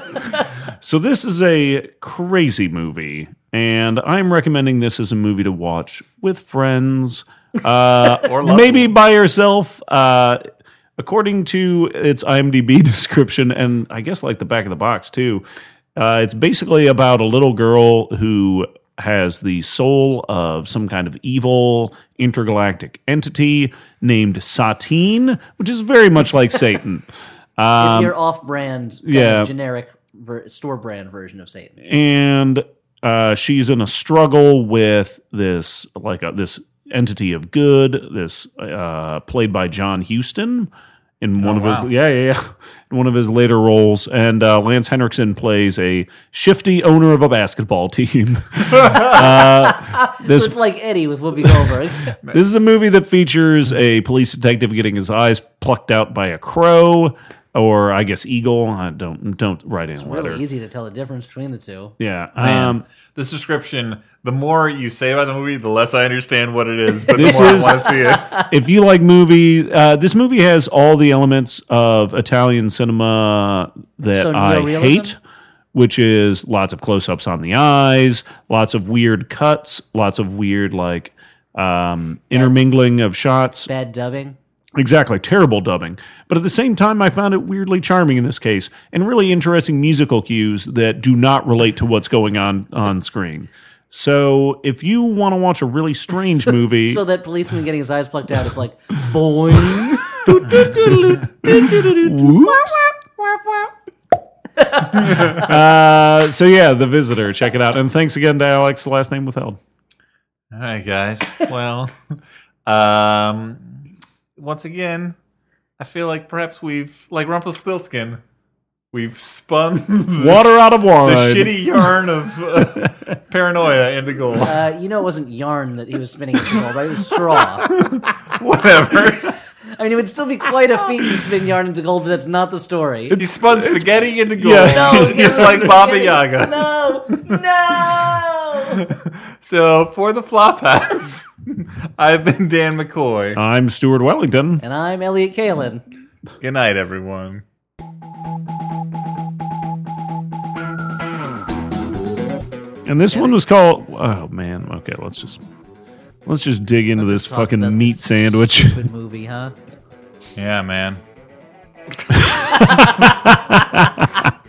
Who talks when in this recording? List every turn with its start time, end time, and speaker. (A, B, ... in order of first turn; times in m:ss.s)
0:00.8-0:10.4 A
0:08.1-0:08.9 B
0:11.0-0:15.4 A
0:16.0-0:27.1 A
0:27.6-0:28.1 A
0:27.8-0:31.7 C
0:29.0-0:29.5 A
0:31.8-0:50.6 A
0:41.4-0:41.9 B
0:48.9-0:52.2 C
0:51.4-0:51.7 A
0:52.3-1:00.4 A
1:00.0-1:01.9 C
1:02.0-1:02.8 A
1:02.4-1:08.3 B
1:07.1-1:08.5 C
1:07.1-1:07.9 A
1:08.5-1:15.2 A
1:14.1-1:15.1 C
1:15.7-1:23.7 A
1:23.7-1:24.4 C
1:24.8-1:37.0 A
1:36.8-1:43.7 C
1:39.7-1:42.8 A
1:44.6-1:45.4 C
1:45.1-1:49.6 A
1:45.1-1:45.4 B
1:50.5-1:53.8 B
1:54.4-1:55.2 B
1:55.8-1:58.2 B
1:58.9-2:00.5 B
2:00.2-2:01.9 A
2:01.0-2:04.6 B
2:04.4-2:07.7 C
2:07.6-2:09.4 B
2:09.8-2:13.2 C
2:13.2-2:16.7 B
2:13.5-2:15.8 A
2:14.7-2:18.8 C
2:18.7-2:23.4 B
2:23.4-2:24.6 A
2:24.6-2:25.8 C
2:26.4-2:27.4 B
2:32.8-2:35.4 A
2:33.1-2:33.4 C
2:36.2-2:38.8 A
2:37.0-2:39.5 C
2:40.4-2:41.0 B
2:42.5-2:43.6 C
2:42.7-2:44.0 A